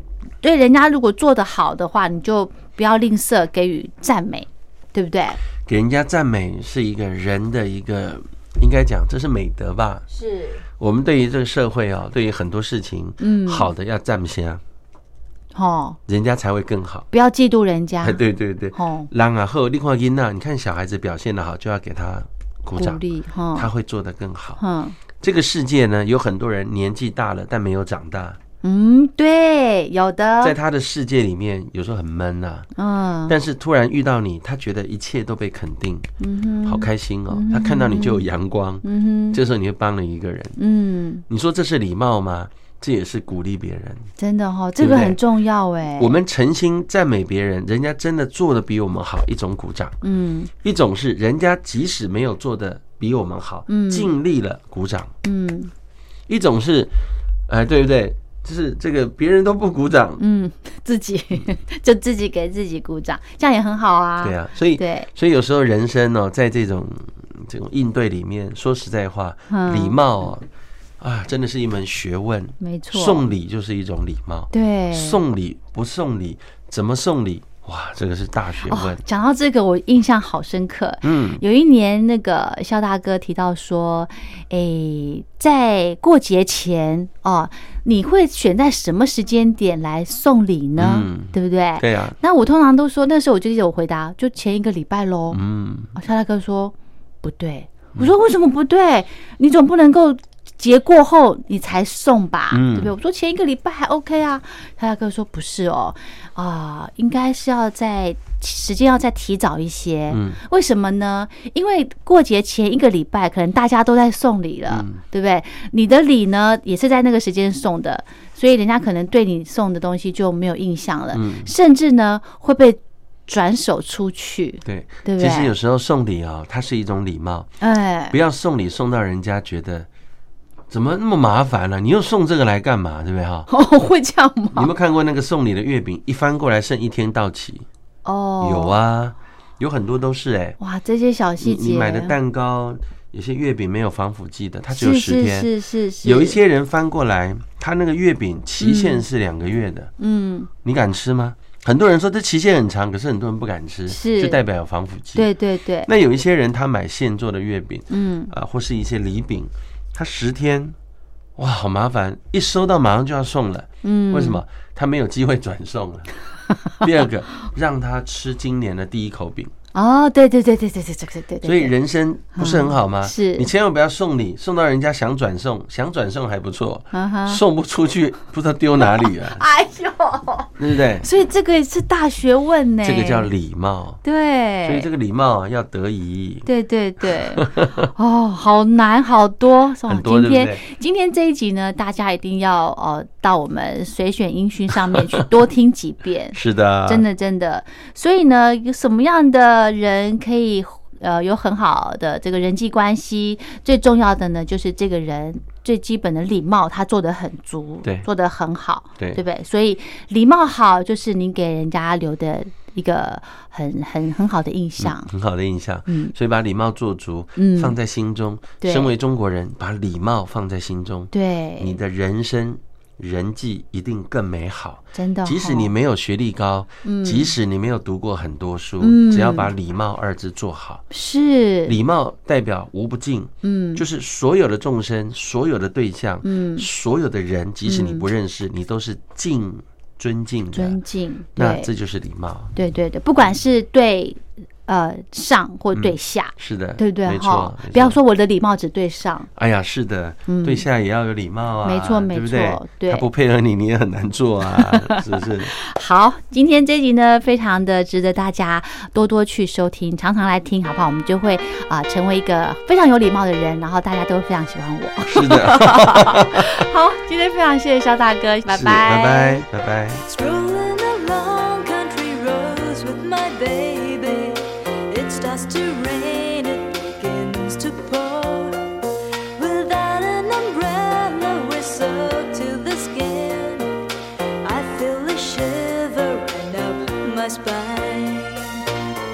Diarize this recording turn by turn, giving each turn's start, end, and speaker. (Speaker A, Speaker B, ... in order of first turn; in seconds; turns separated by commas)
Speaker A: 0.4-5.4, Speaker B: 5.7-10.1, Speaker A: 10.1-10.6, Speaker B: 10.8-14.6, Speaker A: 13.2-13.7, Speaker A: 15.5-16.0, Speaker B: 16.1-17.1, Speaker A: 17.1-18.2, Speaker B: 18.0-23.0, Speaker A: 18.7-19.1, Speaker A: 22.8-23.7, Speaker B: 23.5-24.6, Speaker A: 24.6-25.0, Speaker B: 25.2-28.4, Speaker A: 28.6-30.6, Speaker B: 30.4-32.7, Speaker A: 32.8-33.4, Speaker B: 33.3-36.1, Speaker A: 36.2-38.3, Speaker B: 36.6-40.6, Speaker A: 38.8-39.4, Speaker A: 40.6-41.2, Speaker B: 41.3-44.1, Speaker A: 44.2-46.1, Speaker B: 44.8-45.2, Speaker B: 46.0-50.0, Speaker A: 50.0-50.5, Speaker B: 50.6-55.1, Speaker A: 53.7-54.1, Speaker A: 55.2-55.7, Speaker B: 56.3-56.9, Speaker B: 57.5-60.2, Speaker A: 60.2-65.1, Speaker B: 64.2-70.4, Speaker A: 69.5-70.0, Speaker B: 71.0-79.0, Speaker A: 72.6-73.2, Speaker A: 74.5-75.2, Speaker A: 78.6-95.4, Speaker B: 81.0-81.4, Speaker B: 90.8-92.2, Speaker B: 95.3-95.9, Speaker A: 95.9-125.5, Speaker B: 102.5-102.9, Speaker B: 110.1-110.4, Speaker B: 114.7-115.0, Speaker B: 121.1-121.5, Speaker B: 124.6-127.5, Speaker A: 127.6-128.2, Speaker B: 128.1-129.9, Speaker B: 130.7-133.5, Speaker A: 133.5-134.7, Speaker B: 134.5-137.7, Speaker A: 138.0-138.8, Speaker B: 138.4-140.6, Speaker A: 140.6-142.1, Speaker B: 141.4-145.5, Speaker A: 144.7-146.4, Speaker B: 146.0-149.9, Speaker A: 148.6-149.0, Speaker A: 150.0-150.5, Speaker B: 150.6-155.3, Speaker A: 153.9-154.4, Speaker A: 155.1-155.9, Speaker B: 155.8-160.8, Speaker A: 157.9-158.3, Speaker B: 161.4-166.1, Speaker A: 163.8-164.4, Speaker B: 166.8-169.5, Speaker A: 169.7-171.7, Speaker B: 171.4-179.4, Speaker A: 172.3-173.5, Speaker A: 176.9-177.4, Speaker A: 178.8-183.3, Speaker B: 180.6-181.1, Speaker B: 182.8-184.0, Speaker A: 184.0-184.9, Speaker B: 184.6-186.5, Speaker A: 186.4-215.1, Speaker B: 187.0-187.9, Speaker B: 189.9-190.6, Speaker B: 194.9-195.2, Speaker B: 196.3-197.0, Speaker B: 214.8-230.8, Speaker A: 215.9-216.1, Speaker A: 217.3-217.7, Speaker A: 218.6-218.9, Speaker A: 221.1-221.8, Speaker A: 224.9-225.7, Speaker A: 226.8-227.3, Speaker A: 228.8-229.5, Speaker A: 230.9-231.8, Speaker B: 231.7-240.8, Speaker A: 233.4-233.8, Speaker A: 236.2-236.7, Speaker A: 237.7-238.1, Speaker A: 240.5-241.7, Speaker B: 241.3-242.5, Speaker A: 242.5-249.3, Speaker B: 245.7-248.0, Speaker B: 249.3-255.5, Speaker A: 250.3-250.7, Speaker A: 251.6-253.1, Speaker A: 254.5-269.4, Speaker B: 265.1-266.6, Speaker B: 268.5-270.0, Speaker C: 270.1-278.7, Speaker C: 279.4-283.8, Speaker C: 284.4-288.6